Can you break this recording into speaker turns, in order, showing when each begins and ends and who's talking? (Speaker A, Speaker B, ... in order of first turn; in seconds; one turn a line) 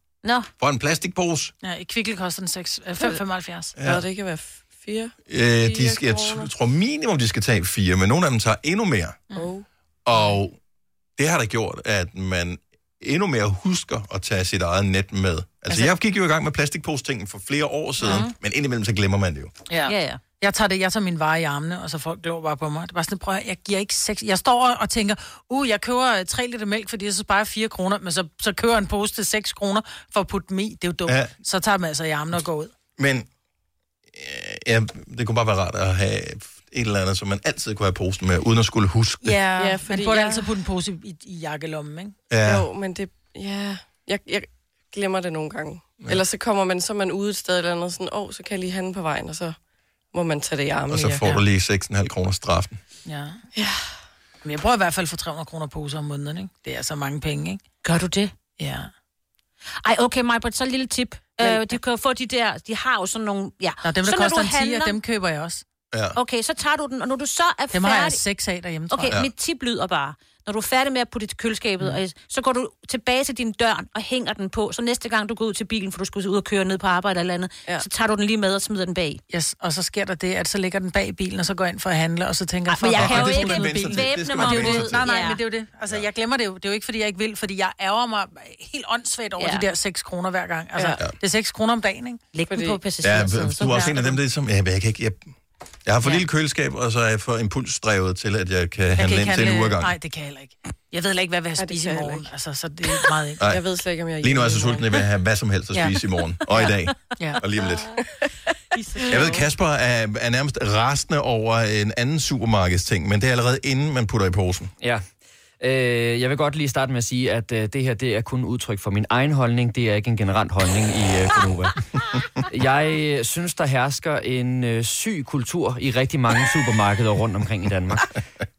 Speaker A: 0.2-0.5
Speaker B: 0.6-1.5
Speaker C: 1.6-3.7
Speaker B: 3.8-4.0
Speaker D: 3.8-6.5
Speaker B: 5.3-9.2
Speaker D: 9.4-9.6
Speaker B: 10.1-10.6
Speaker B: 11.2-19.5
Speaker A: 18.0-18.3
Speaker C: 19.7-32.7
Speaker A: 19.9-20.2
Speaker B: 33.0-33.3
Speaker B: 34.1-39.4
Speaker C: 39.2-42.2
Speaker D: 39.6-40.5
Speaker B: 42.3-42.7
Speaker D: 42.4-49.6
Speaker D: 50.1-51.3
Speaker B: 50.9-52.8
Speaker C: 53.1-53.4
Speaker D: 53.6-53.9
Speaker C: 54.4-57.6
Speaker A: 57.8-58.3
Speaker C: 58.6-58.9
Speaker A: 59.8-65.0
Speaker C: 63.8-65.6
Speaker B: 65.9-66.2
Speaker A: 66.2-68.2
Speaker C: 67.7-69.2
Speaker A: 68.9-79.2
Speaker C: 79.3-92.2
Speaker A: 82.7-85.4
Speaker B: 82.9-85.2
Speaker A: 89.4-89.6
Speaker D: 90.8-91.0
Speaker A: 92.3-94.1
Speaker D: 92.5-92.8
Speaker B: 93.0-95.2
Speaker B: 95.9-99.9
Speaker C: 99.0-103.4
Speaker D: 101.6-102.3
Speaker B: 103.4-103.6
Speaker D: 103.4-104.9
Speaker B: 104.2-108.0
Speaker C: 106.5-107.4
Speaker D: 108.7-109.5
Speaker B: 109.1-114.7
Speaker E: 115.6-121.8
Speaker E: 122.5-128.1